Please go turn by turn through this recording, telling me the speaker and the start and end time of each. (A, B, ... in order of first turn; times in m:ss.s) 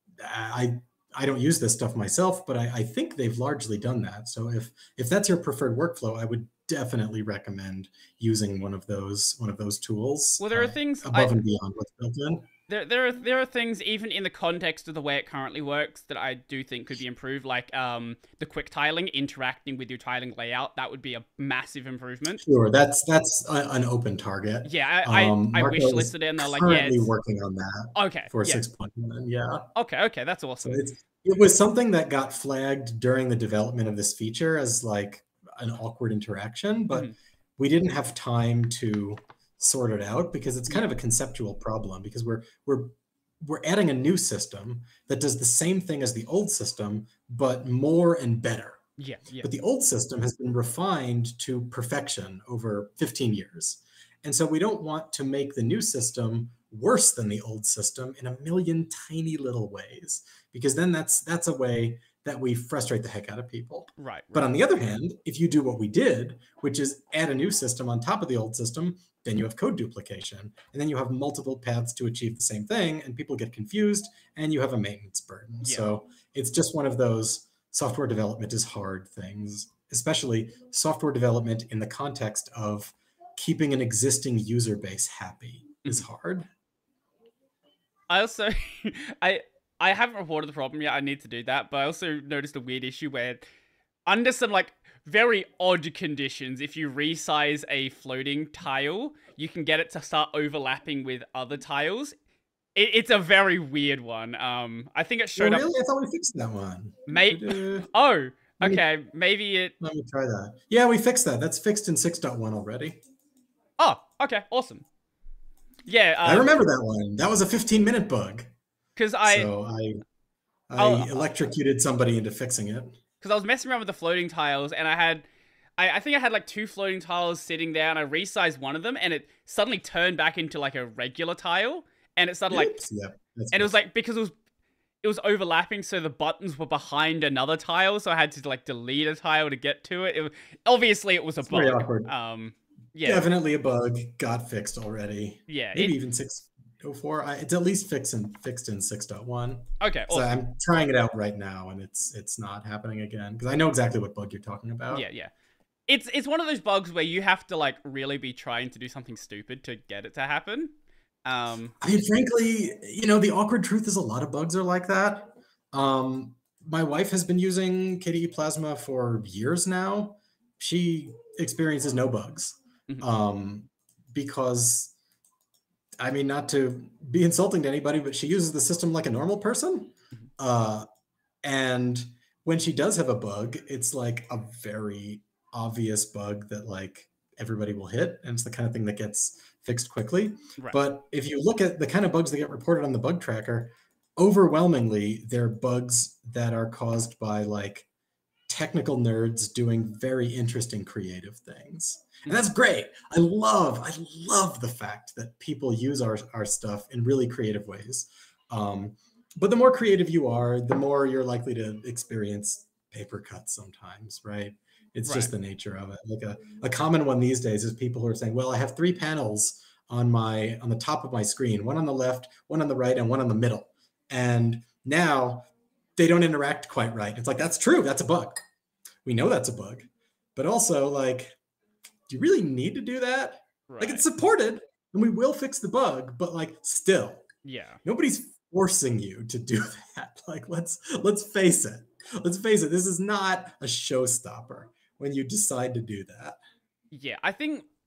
0:00.2-0:12.5 A
0:10.4-0:11.4 B
0:12.7-0:22.4 B
0:22.4-0:29.7 A
0:24.6-0:27.1 B
0:28.0-0:28.6 B
0:29.8-0:30.8 B
0:30.6-0:48.8 A
0:49.0-0:49.5 B
0:49.4-1:26.5 A
1:04.0-1:04.6 B
1:15.6-1:16.0 B
1:28.1-1:33.4 B
1:34.1-1:42.1 B
1:42.8-1:45.7 B
1:45.4-1:47.9 A
1:47.1-1:49.7 B
1:49.8-1:53.0 A
1:53.8-1:54.8 B
1:55.9-1:56.6 B
1:56.2-1:58.5 A
1:59.0-1:59.5 B
1:59.2-2:00.0 A
2:00.7-2:03.0 A
2:00.8-2:01.3 B
2:03.2-2:05.2 B
2:05.8-2:12.8 B
2:12.5-2:13.7 A
2:13.5-2:14.3 B
2:15.0-2:23.3 B
2:21.4-2:22.1 A
2:23.0-2:35.1 A
2:25.5-2:26.0 B
2:29.8-2:30.4 B
2:34.9-2:35.3 B
2:35.9-2:40.7 B
2:41.3-2:41.8 B
2:41.8-2:54.9 A
2:56.0-3:00.9 A
3:01.4-3:17.9 A
3:18.5-3:48.4 A
3:35.1-3:35.3 B
3:49.0-3:51.4 A
3:52.1-3:57.3 A
3:53.7-3:54.0 B
3:57.4-3:57.8 B
3:57.8-4:06.4 A
4:06.9-4:07.7 B